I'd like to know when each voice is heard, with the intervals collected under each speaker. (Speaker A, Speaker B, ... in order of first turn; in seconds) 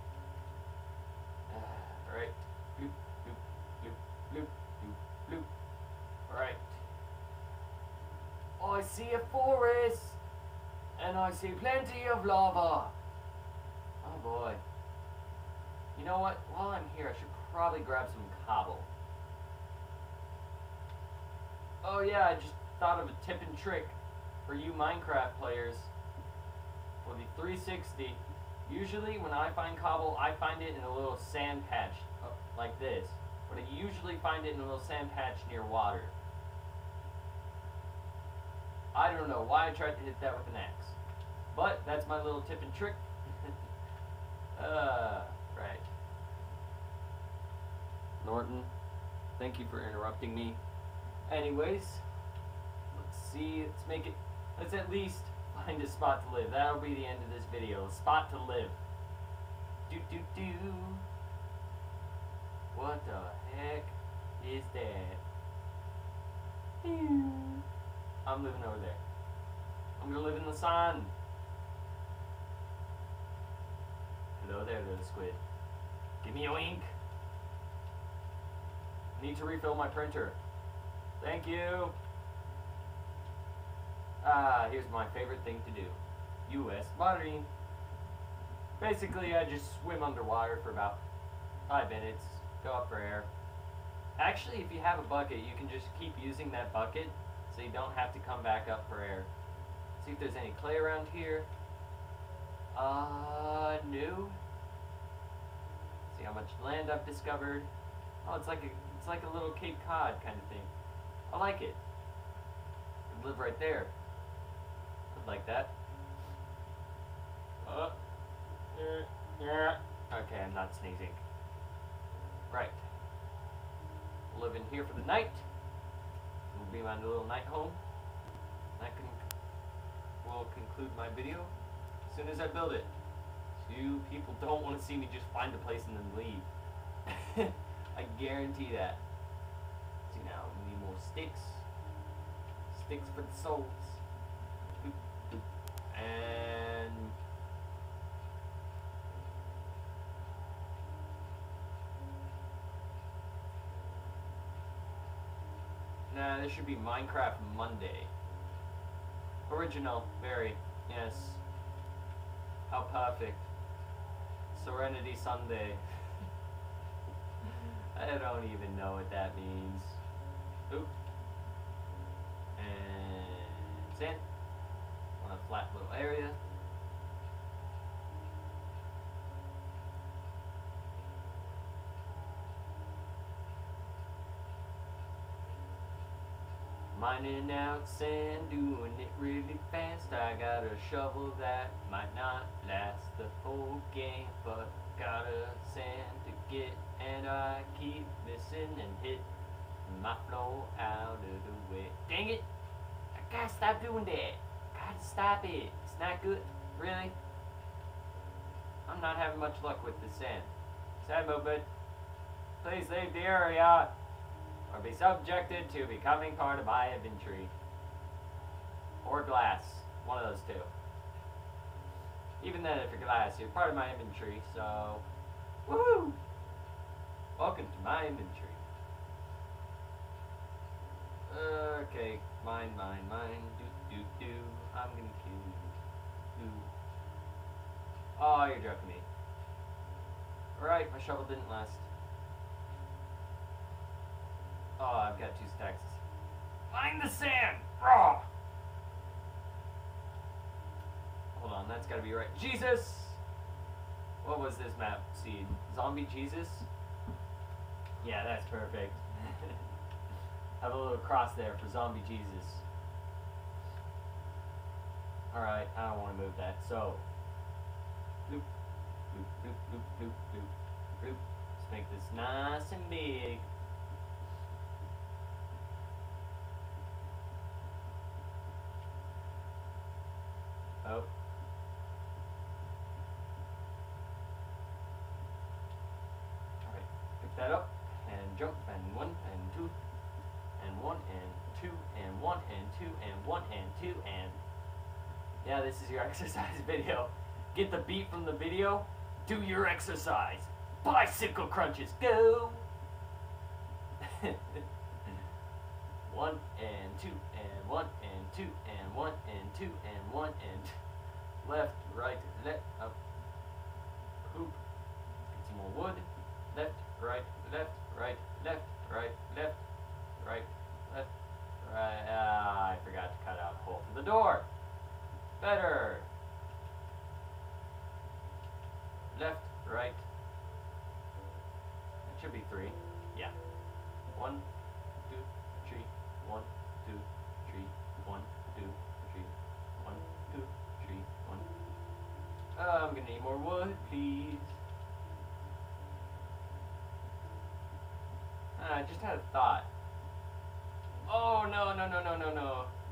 Speaker A: 1.5-5.5, 6.3-6.8, 8.6-10.2, 10.9-12.9, 14.0-14.6, 15.9-18.9, 21.8-25.9, 27.0-36.1, 38.9-41.0, 41.5-43.5, 44.5-45.9, 48.2-48.7, 49.4-50.6, 51.3-52.0, 52.9-58.8, 59.9-61.0, 62.7-65.2, 66.8-67.6, 68.2-69.0, 70.0-71.1, 74.4-75.4, 76.2-76.9, 79.2-80.4, 81.2-81.9, 84.2-87.5, 88.8-91.0, 91.7-93.3, 94.2-99.3, 100.0-101.5, 102.7-104.4, 106.1-107.7, 108.2-110.7, 111.3-111.8, 113.1-113.9, 115.1-115.7, 117.6-117.9, 118.7-121.2, 122.5-122.8, 124.3-125.4, 126.5-127.8, 128.8-129.2, 130.2-131.5, 132.1-132.9, 133.6-136.5, 137.1-139.0, 140.1-141.6, 142.7-144.0, 144.8-147.1, 156.1-158.1, 159.5-161.4, 162.7-163.5, 164.5-165.8, 167.4-170.0, 170.7-170.9, 172.6-174.2, 175.2-176.4, 186.9-199.3, 199.8-202.4, 203.1-207.1, 208.8-211.7, 212.6-213.9, 214.7-217.5, 219.0-220.7, 222.4-225.0, 225.7-226.2, 227.3-228.6, 231.3-235.8, 236.3-236.7, 238.2-239.1, 240.5-241.8, 244.8-246.0, 246.7-248.3, 251.3-253.2, 254.2-256.7, 258.0-259.6, 260.6-262.6, 265.3-267.0, 269.1-273.5, 280.8-281.1, 286.6-289.7, 290.6-294.4, 295.4-302.6, 304.0-305.2, 306.0-310.7, 311.4-312.9, 314.2-314.6, 315.3-319.6, 320.2-321.1, 321.6-324.5, 325.4-326.1, 329.1-330.0, 332.0-333.3, 334.1-334.4, 335.1-341.5, 342.5-344.6, 348.6-349.7, 351.1-352.7